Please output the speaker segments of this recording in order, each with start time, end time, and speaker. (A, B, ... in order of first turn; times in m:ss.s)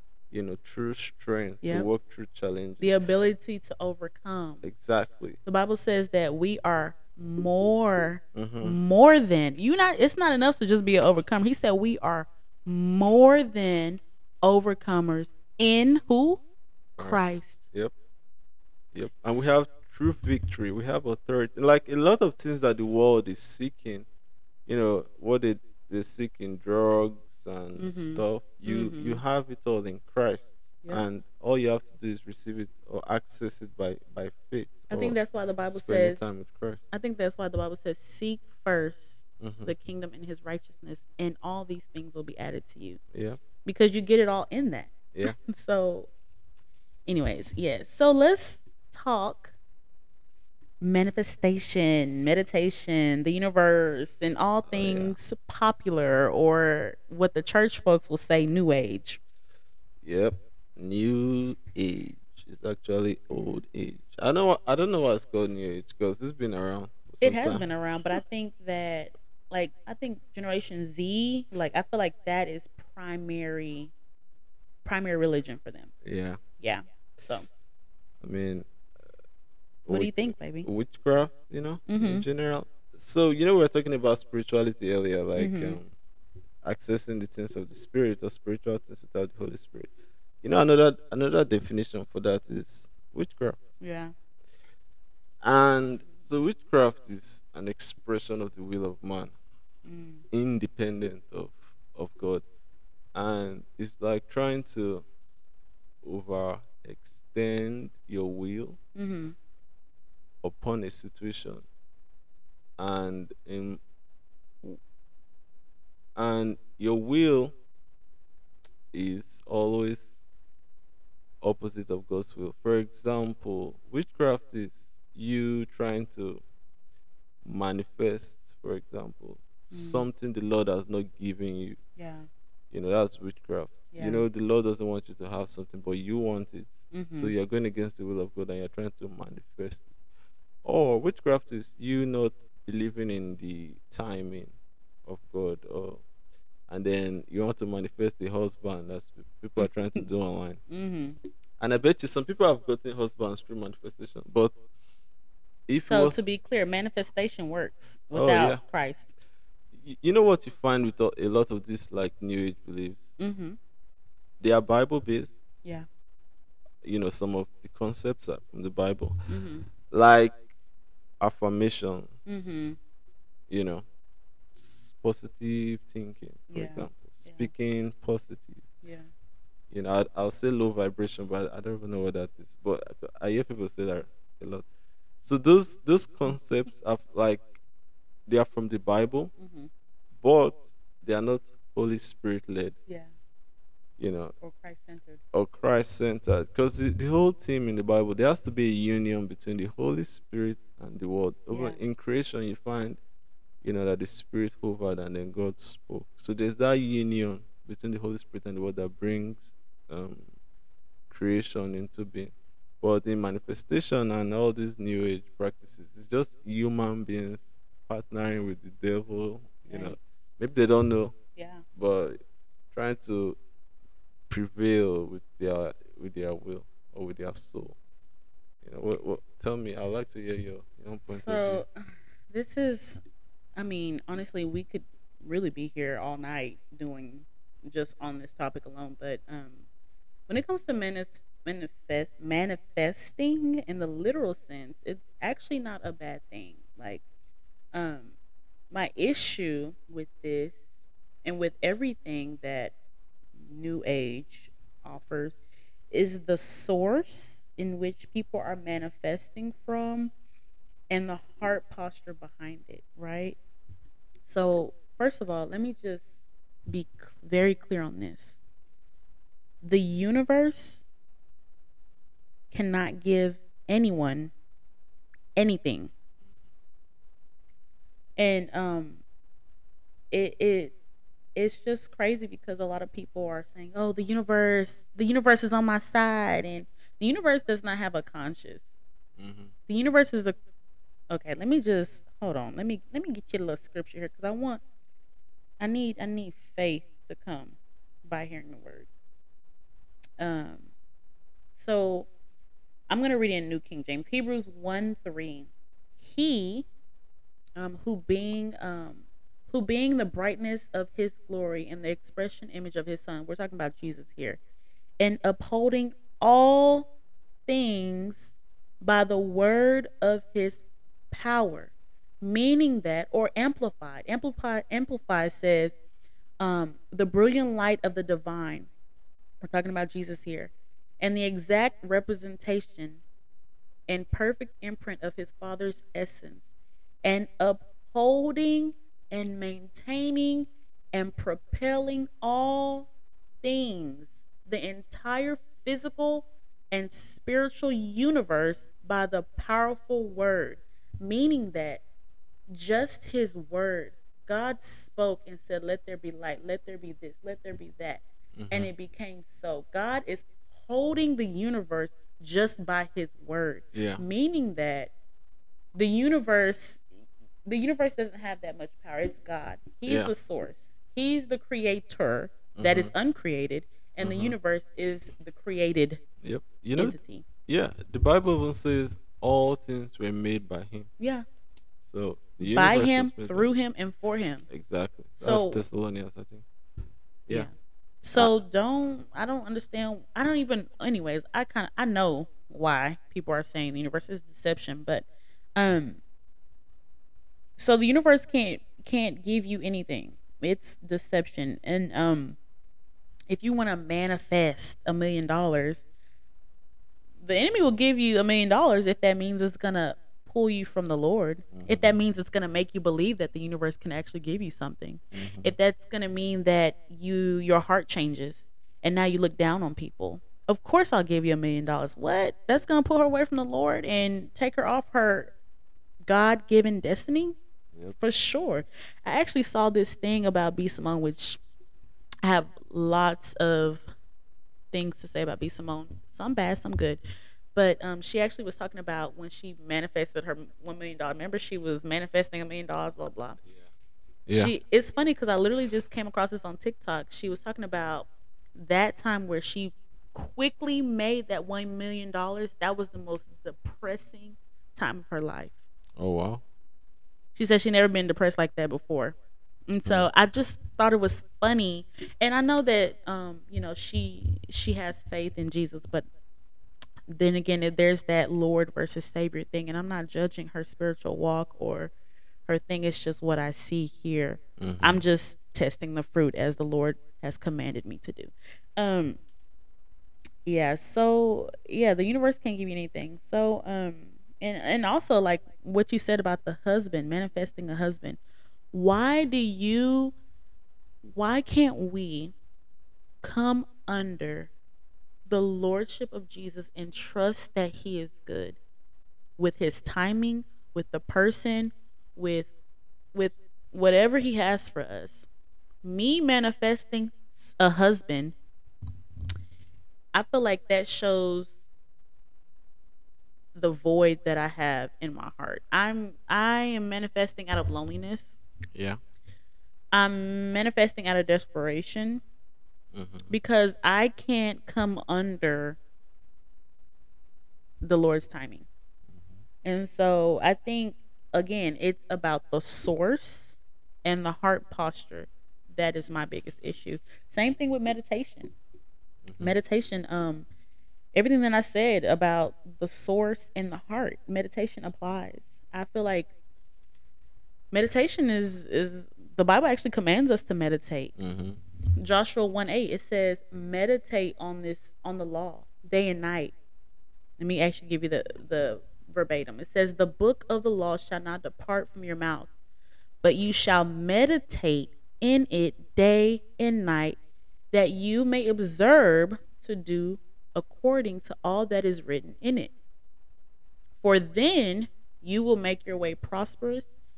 0:00.3-0:03.0 A
0:01.6-0:01.9 B
0:02.8-0:04.6 B
0:04.6-0:05.4 A
0:05.4-0:16.4 B
0:08.4-0:08.8 A
0:17.0-0:17.9 A
0:17.0-0:17.6 B
0:18.9-0:24.0 A
0:24.7-0:36.8 A
0:27.8-0:29.2 B
0:34.9-0:36.3 B
0:36.9-0:43.0 B
0:39.4-0:39.7 A
0:43.1-0:43.4 A
0:43.6-0:46.1 B
0:47.1-0:49.5 B
0:50.8-0:59.2 B
0:54.7-0:55.2 A
1:00.0-1:07.7 A
1:03.3-1:03.6 B
1:07.2-1:13.9 B
1:14.8-1:15.9 B
1:16.0-1:16.4 A
1:16.6-1:17.5 B
1:18.2-1:18.7 A
1:19.9-1:25.9 A
1:19.9-1:20.7 B
1:21.9-1:22.2 B
1:25.4-1:25.8 B
1:26.6-1:29.9 A
1:30.4-1:33.6 A
1:33.8-1:34.1 B
1:35.4-1:39.3 A
1:39.9-1:40.2 B
1:40.3-1:42.4 A
1:43.1-1:45.0 A
1:46.0-1:48.8 A
1:49.0-1:49.4 B
1:50.4-1:51.6 A
1:52.8-1:53.8 A
1:56.2-1:57.5 A
1:58.9-2:00.1 A
2:01.4-2:06.4 A
2:07.4-2:11.8 A
2:09.7-2:10.0 B
2:12.0-2:12.3 B
2:12.7-2:19.9 A
2:13.9-2:14.2 B
2:16.9-2:17.3 B
2:20.6-2:24.5 A
2:25.0-2:26.0 A
2:26.7-2:30.6 A
2:30.7-2:31.2 B
2:31.6-2:34.6 A
2:35.7-2:36.2 A
2:35.8-2:39.1 B
2:38.1-2:38.6 A
2:39.7-2:43.1 A
2:43.2-2:43.6 B
2:44.4-2:45.4 A
2:46.8-2:49.2 A
2:49.3-2:49.7 B
2:49.8-2:50.4 A
2:51.2-2:52.7 A
2:52.3-2:52.8 B
2:53.5-2:53.8 A
2:54.6-2:58.6 A
2:56.5-2:57.5 B
2:58.8-2:59.1 B
2:59.7-3:04.6 A
3:05.2-3:07.6 A
3:08.3-3:09.3 A
3:09.4-3:09.7 B
3:10.2-3:12.8 A
3:14.0-3:14.3 A
3:14.4-3:15.2 B
3:15.3-3:23.0 A
3:21.5-3:21.8 B
3:23.6-3:30.3 A
3:31.1-3:41.2 A
3:39.7-3:40.0 B
3:41.4-3:41.6 B
3:41.7-3:42.2 A
3:42.7-3:43.4 A
3:44.3-3:47.8 A
3:48.6-3:51.6 A
3:51.1-3:51.7 B
3:52.3-3:53.0 B
3:53.6-3:59.6 B
4:00.3-4:07.0 B
4:07.7-4:08.1 B
4:08.7-4:10.6 B
4:11.2-4:12.7 B
4:13.4-4:15.4 B
4:15.9-4:20.1 B
4:20.9-4:23.4 B
4:24.2-4:28.4 B
4:29.6-4:30.8 B
4:32.5-4:34.3 B
4:35.4-4:35.9 B
4:38.2-4:39.0 B
4:40.1-4:40.7 B
4:41.4-4:48.6 B
4:49.2-4:49.5 A
4:49.7-4:50.4 B
4:51.1-4:54.6 B
4:55.6-4:58.9 B
5:00.2-5:00.7 B
5:01.6-5:02.1 B
5:02.9-5:05.5 B
5:06.0-5:06.7 B
5:07.6-5:14.4 B
5:15.0-5:16.9 B
5:17.5-5:25.8 B
5:26.4-5:28.7 B
5:29.4-5:33.0 B
5:33.9-5:36.5 B
5:37.0-5:42.9 B
5:43.4-5:51.8 B
5:52.5-6:04.9 B
5:58.4-5:58.7 A
6:03.7-6:04.0 A
6:05.7-6:06.8 B
6:07.4-6:16.0 B
6:09.9-6:10.1 A
6:12.6-6:12.9 A
6:14.0-6:14.4 A
6:16.2-6:20.9 A
6:16.8-6:17.2 B
6:21.0-6:21.2 B
6:21.9-6:23.5 A
6:22.4-6:24.4 B
6:24.5-6:26.4 A
6:25.2-6:25.6 B
6:28.0-6:36.0 B
6:37.6-6:42.4 B
6:43.3-6:45.8 B
6:47.2-7:05.3 B
6:51.5-6:51.9 A
6:55.1-6:55.6 A
7:06.1-7:07.4 B
7:07.9-7:11.4 B
7:12.2-7:13.9 B
7:14.7-7:17.0 B
7:17.6-7:23.4 B
7:24.3-7:24.5 A
7:24.3-7:35.6 B
7:36.0-7:36.4 A
7:37.4-7:39.2 B
7:39.7-7:46.1 B
7:47.1-7:51.9 B
7:52.5-7:59.2 B
7:54.6-7:55.0 A
8:00.4-8:08.2 B
8:08.7-8:10.1 B
8:11.1-8:12.3 B
8:13.2-8:14.5 B
8:15.3-8:18.6 B
8:19.4-8:22.5 B
8:23.1-8:25.3 B
8:25.8-8:28.4 B
8:30.1-8:31.6 B
8:33.6-8:38.4 B
8:38.7-8:39.0 A
8:39.9-8:42.2 B
8:42.9-8:43.3 A
8:43.3-8:45.8 B
8:47.8-8:48.7 B
8:49.6-8:58.5 B
8:59.2-8:59.6 A
8:59.4-9:00.5 B
9:01.1-9:06.3 B
9:07.7-9:11.1 B
9:11.2-9:11.6 A
9:12.0-9:16.6 B
9:17.4-9:22.5 B
9:23.2-9:27.2 B
9:27.7-9:32.7 B
9:34.0-9:36.9 B